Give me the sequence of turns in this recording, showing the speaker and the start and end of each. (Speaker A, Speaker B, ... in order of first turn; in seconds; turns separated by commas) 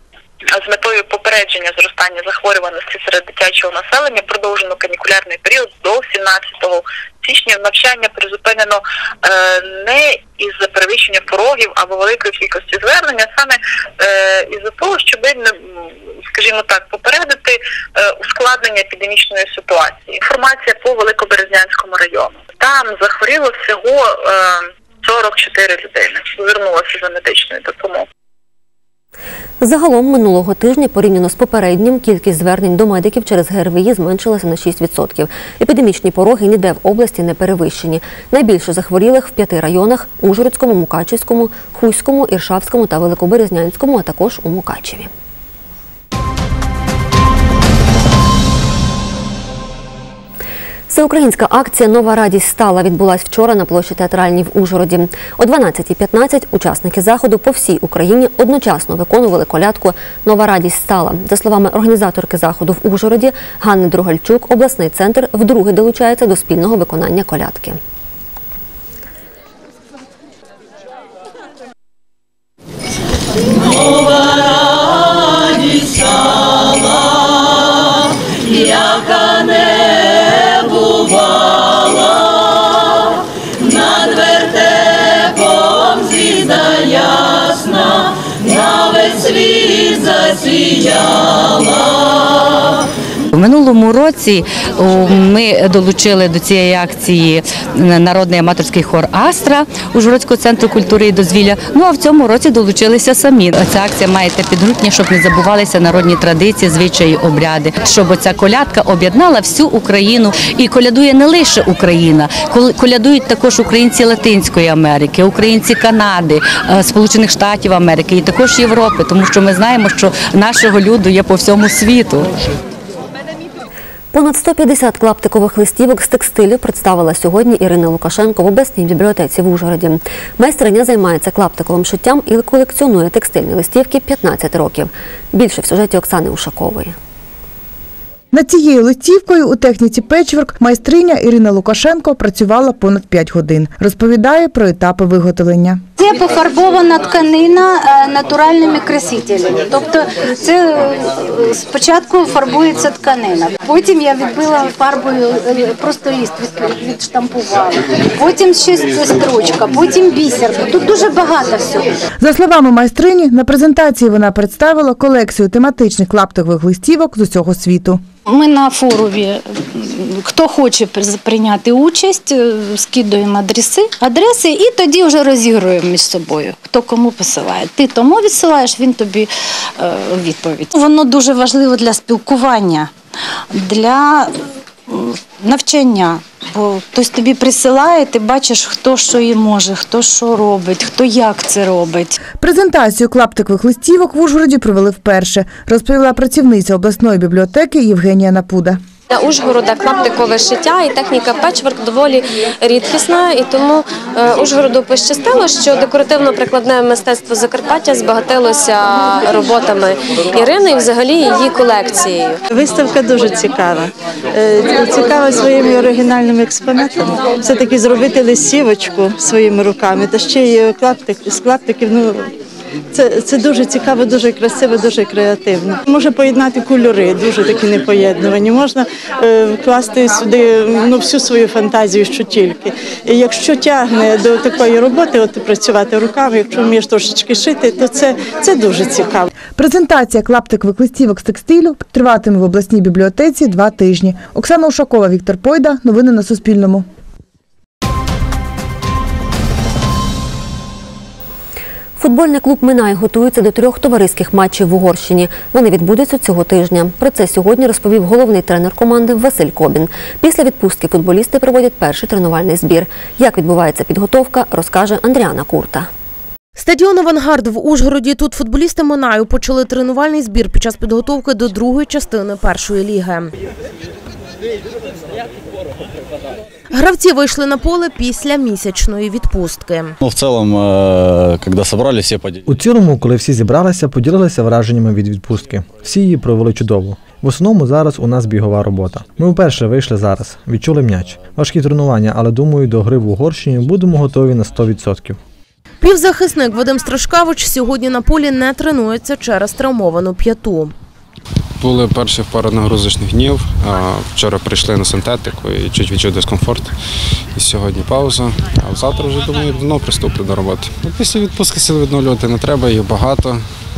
Speaker A: 0.6-15.5, Speaker A: 16.3-17.6, Speaker A: 18.2-28.0, Speaker B: 29.6-45.1, Speaker B: 50.9-67.8, Speaker C: 93.3-122.3, Speaker B: 124.1-136.9, Speaker D: 138.3-145.8, Speaker E: 146.0-161.9, Speaker D: 162.2-168.0, Speaker E: 168.2-182.9, Speaker E: 183.5-184.4, Speaker E: 184.9-192.2, Speaker D: 192.4-198.8, Speaker F: 199.3-212.3, Speaker G: 212.5-222.3, Speaker G: 222.9-239.3, Speaker D: 239.6-246.8, Speaker B: 252.0-265.9, Speaker H: 266.6-273.3, Speaker H: 276.7-279.9, Speaker I: 280.0-282.4, Speaker J: 282.5-295.2, Speaker H: 295.8-300.7, Speaker K: 301.6-306.7, Speaker K: 307.4-313.4